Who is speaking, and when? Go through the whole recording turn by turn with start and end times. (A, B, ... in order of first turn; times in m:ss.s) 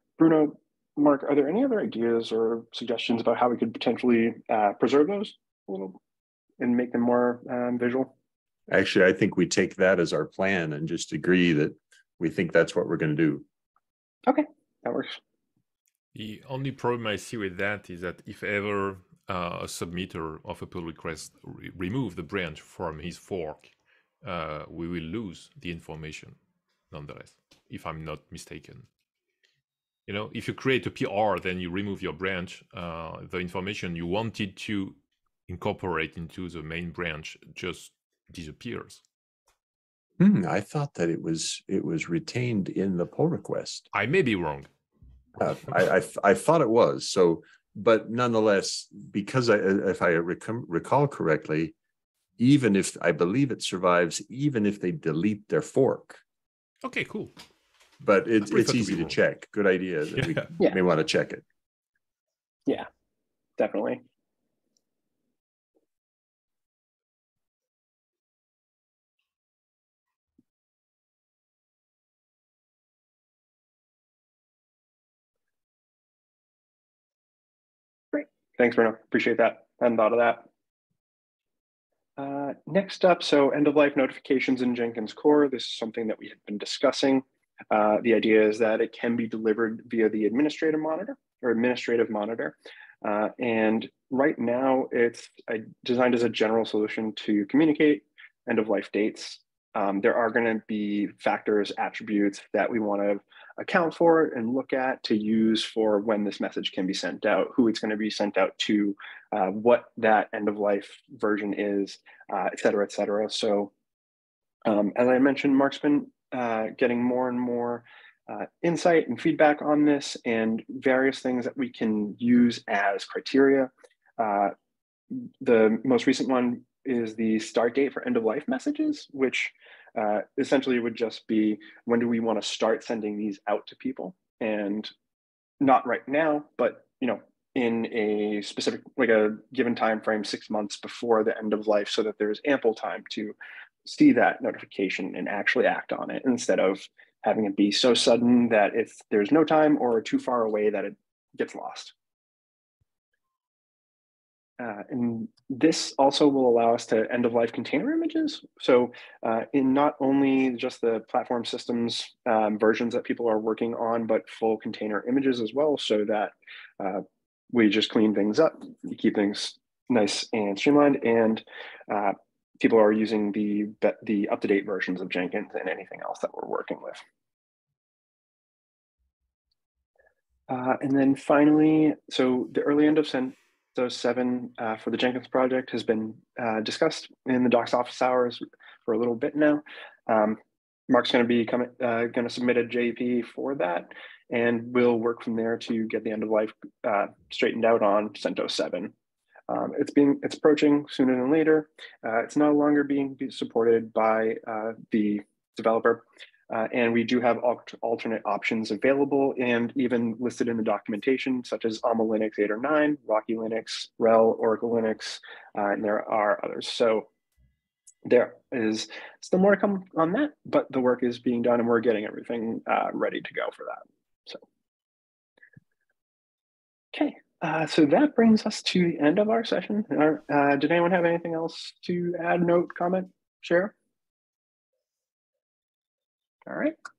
0:00.2-0:06.0 A
0:06.6-0:08.1 A
0:08.7-0:13.4 B
0:14.3-0:15.2 A
0:16.1-0:26.4 C
0:26.9-0:28.9 C
0:30.1-0:39.0 C
0:40.2-0:43.9 B
0:43.9-0:44.7 C
0:45.4-0:51.8 B
0:52.4-0:56.2 B
0:56.8-0:57.3 C
0:58.0-1:01.4 B
0:58.4-0:59.2 C
1:00.2-1:00.5 C
1:03.6-1:04.0 A
1:18.1-1:20.5 A
1:22.2-1:53.7 A
1:54.6-2:04.5 A
2:05.1-2:14.9 A
2:15.6-2:31.9 A
2:34.6-2:57.0 A
3:00.5-3:18.9 A
3:19.5-3:37.1 A
3:38.0-3:44.4 A
3:46.9-3:53.8 A
3:56.5-3:56.8 A